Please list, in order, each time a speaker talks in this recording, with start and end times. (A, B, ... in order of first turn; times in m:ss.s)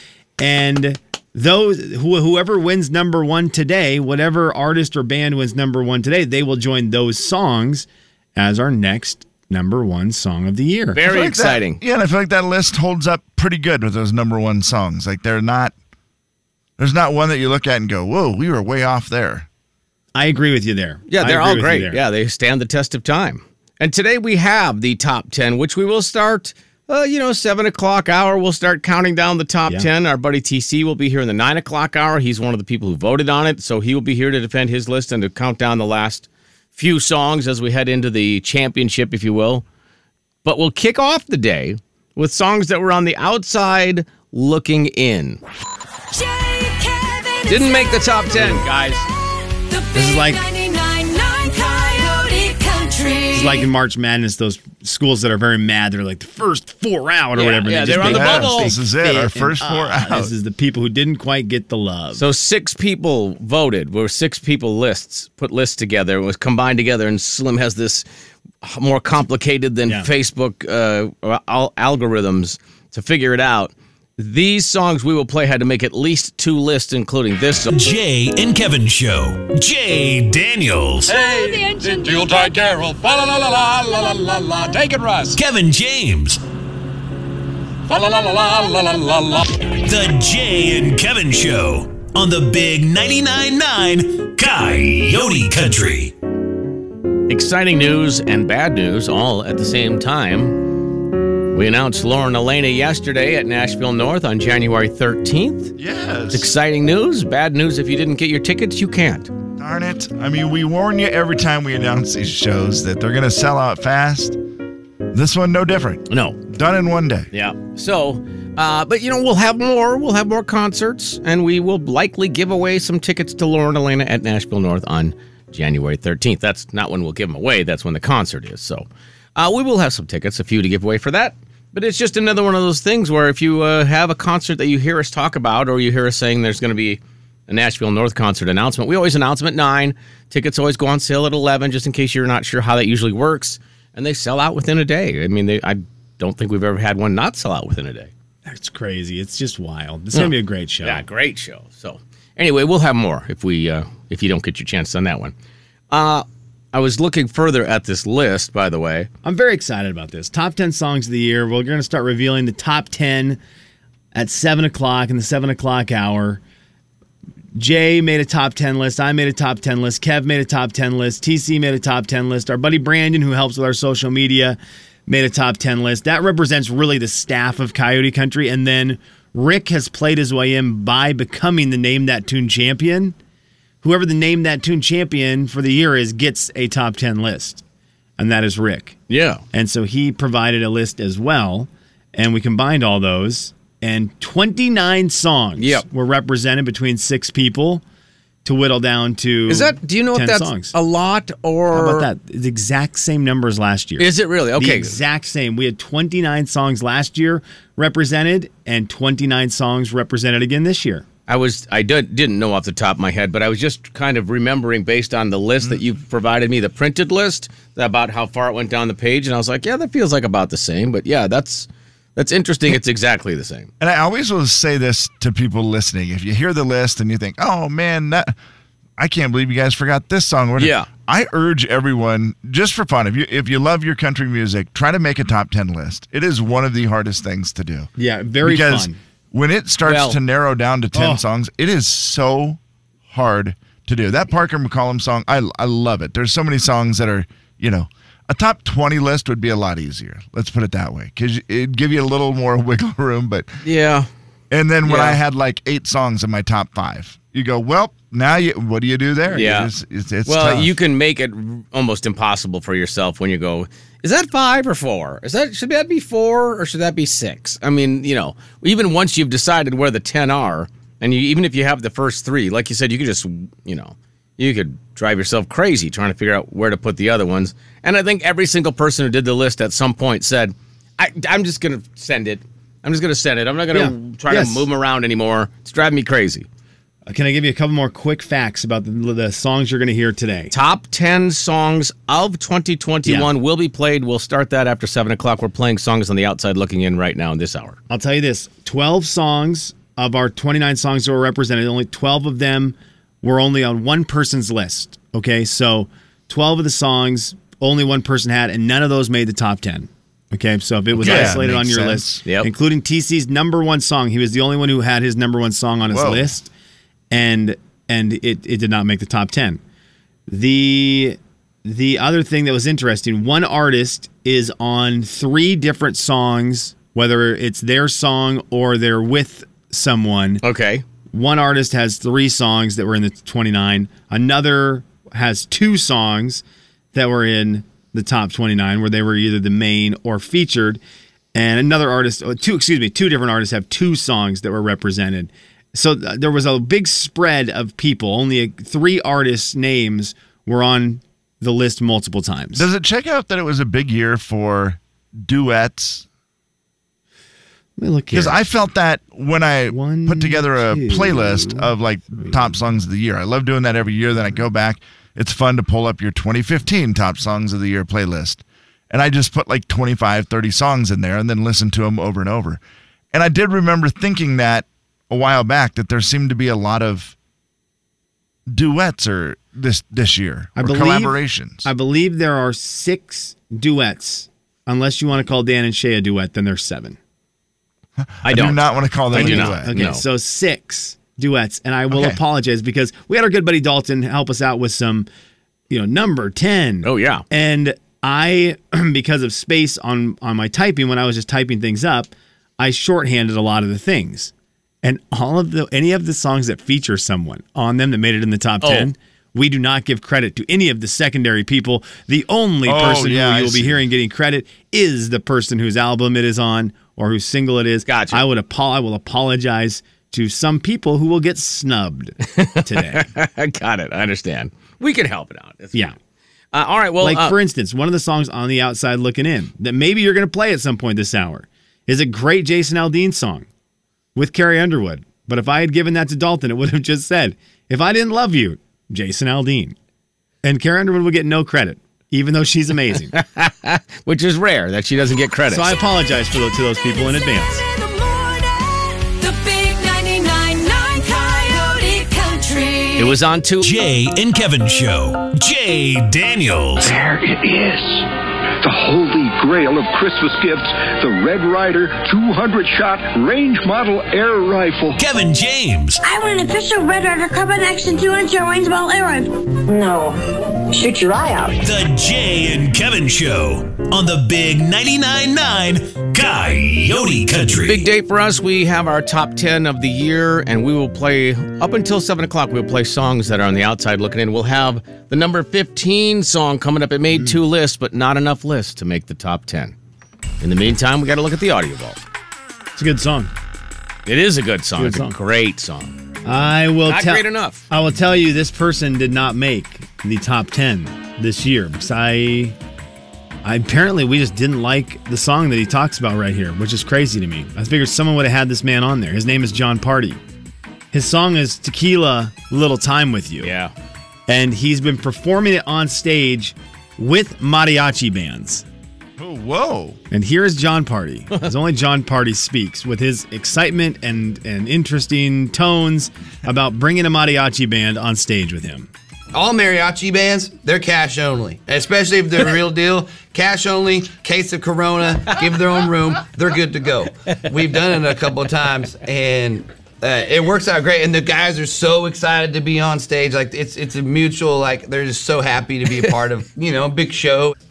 0:00.4-0:11.0 A
0:10.9-0:11.8 B
0:11.0-0:15.7 C
0:16.8-0:19.5 C
0:20.1-0:22.0 A
0:21.1-0:39.6 B
0:40.4-0:45.4 B
0:46.1-0:48.2 D
0:47.5-0:49.1 B
0:49.7-0:53.7 D
0:49.9-0:50.4 A
0:53.3-1:02.2 A
0:57.4-0:58.8 B
0:57.9-1:00.3 C
1:02.1-1:08.0 B
1:08.6-1:17.7 B
1:17.7-1:21.2 E
1:21.1-1:25.4 F
1:21.1-1:22.5 D
1:25.4-1:26.4 E
1:27.9-1:29.5 F
1:29.8-1:36.1 E
1:37.3-1:40.7 B
1:41.5-1:45.7 B
1:45.8-1:46.5 C
1:46.3-1:49.3 B
1:49.6-1:54.4 C
1:55.1-1:57.3 C
1:56.1-1:56.4 B
1:57.3-2:28.1 B
2:28.4-2:31.0 A
2:30.1-2:35.3 B
2:35.9-2:39.1 B
2:39.2-2:43.4 A
2:44.1-2:46.4 A
2:47.6-3:03.2 A
3:03.8-3:07.6 A
3:08.2-3:09.0 A
3:09.1-3:09.4 B
3:09.5-3:17.8 A
3:15.6-3:15.8 B
3:18.4-3:20.7 A
3:19.5-3:22.1 B
3:21.7-3:31.0 A
3:24.0-3:25.0 B
3:31.3-3:43.7 B
3:43.8-3:48.3 C
3:49.0-3:57.9 C
3:50.6-3:50.9 B
3:58.0-3:59.0 A
3:58.4-4:13.5 C
3:59.8-4:00.2 B
4:00.9-4:01.2 A
4:13.6-4:14.1 B
4:14.5-4:20.7 C
4:14.8-4:15.2 B
4:19.3-4:19.7 B
4:20.3-4:46.5 B
4:43.7-4:44.7 A
4:47.1-4:50.5 A
4:50.5-4:57.8 B
4:53.0-4:53.3 A
4:57.9-5:16.5 A
5:11.0-5:12.2 C
5:11.0-5:11.3 B
5:15.9-5:16.3 C
5:17.1-5:19.6 A
5:20.3-5:30.4 A
5:30.4-5:30.8 B
5:31.1-5:36.4 A
5:36.9-5:40.8 A
5:41.3-5:52.7 A
5:52.6-5:56.0 C
5:57.8-5:58.4 A
5:58.1-6:12.6 C
5:59.7-6:02.5 A
6:13.1-6:17.2 C
6:18.5-6:21.7 C
6:20.6-6:27.0 A
6:28.0-6:29.7 C
6:28.2-6:30.0 B
6:29.1-6:35.1 A
6:31.9-6:32.2 C
6:35.7-6:44.3 A
6:36.8-6:37.2 B
6:44.8-7:03.0 A
6:48.6-6:48.9 B
6:52.6-6:53.8 C
6:57.9-6:58.2 B
7:02.3-7:05.9 B
7:06.5-7:07.4 B
7:07.0-7:13.5 A
7:14.2-7:19.8 A
7:20.4-7:23.1 A
7:23.1-7:25.7 B
7:25.5-7:27.6 A
7:27.7-7:33.2 D
7:33.0-7:33.7 B
7:33.6-7:36.9 E
7:36.8-7:38.0 G
7:38.6-7:45.0 G
7:44.9-7:46.0 E
7:46.0-7:51.6 H
7:51.6-7:57.9 E
7:57.6-8:09.7 B
8:07.1-8:07.4 A
8:10.4-8:12.0 B
8:12.8-8:13.3 A
8:14.1-8:15.9 B
8:14.8-8:15.2 A
8:16.2-8:22.6 A
8:16.8-8:17.6 B
8:23.4-8:30.2 A
8:30.9-8:33.5 A
8:33.4-8:33.7 B
8:34.3-8:38.6 A
8:39.2-8:40.0 C
8:40.1-8:48.9 A
8:49.3-9:07.6 I